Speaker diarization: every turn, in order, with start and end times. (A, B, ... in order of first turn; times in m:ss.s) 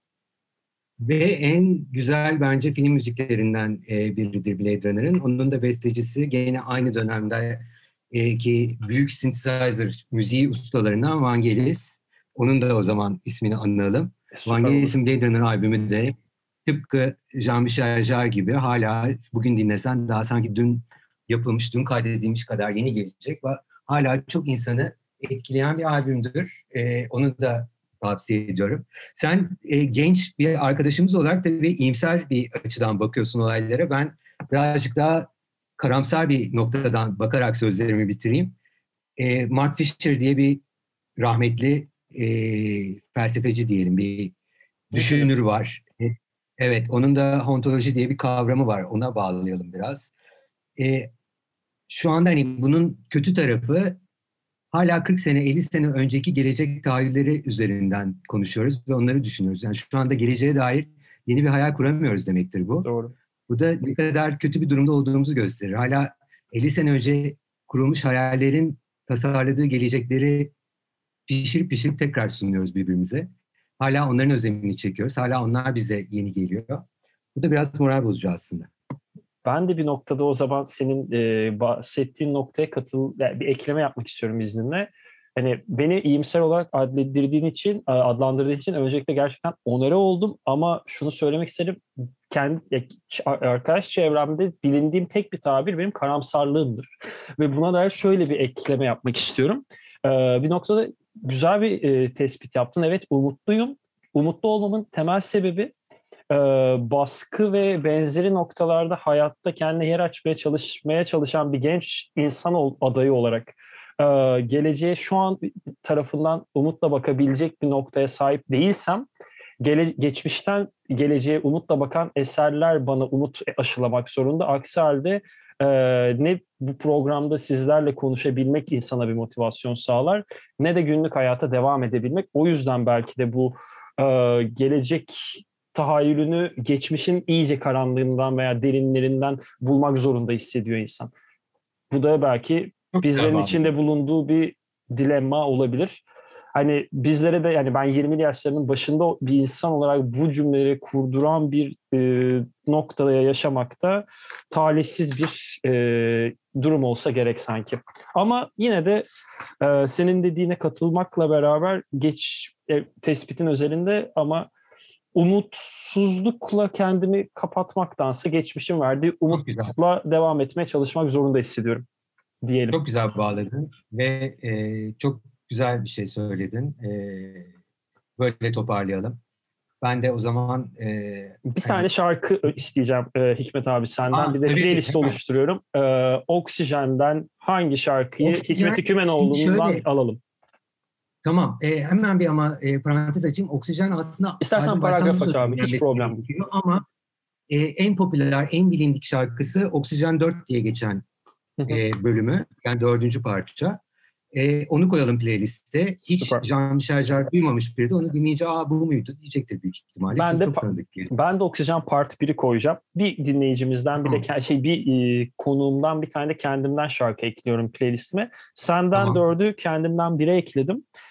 0:01.0-0:16.2 A
0:14.3-0:15.0 B
0:16.7-0:38.6 A
0:39.2-0:40.6 A
0:41.2-0:44.3 A
0:44.9-0:50.1 A
0:45.0-0:45.3 B
0:50.8-0:51.1 A
0:51.9-0:54.0 A
0:54.7-1:02.9 A
1:02.8-1:03.1 B
1:03.5-1:10.5 A
1:11.3-1:18.7 A
1:19.4-1:45.7 B
1:46.3-1:59.1 B
1:59.6-2:21.1 B
2:21.9-2:26.0 B
2:22.9-2:23.7 A
2:26.6-2:39.1 B
2:39.6-2:44.5 B
2:45.2-2:51.9 B
2:49.3-2:49.7 A
2:52.4-2:52.8 B
2:52.7-2:57.5 A
2:58.2-2:59.2 A
2:59.8-3:01.9 A
3:01.4-3:10.2 B
3:04.1-3:05.2 A
3:08.2-3:09.8 A
3:11.2-3:16.8 A
3:14.4-3:16.2 B
3:17.5-3:21.0 A
3:21.7-3:23.8 A
3:24.3-3:31.1 A
3:26.1-3:26.5 B
3:30.1-3:40.8 B
3:34.0-3:34.2 A
3:38.9-3:39.2 A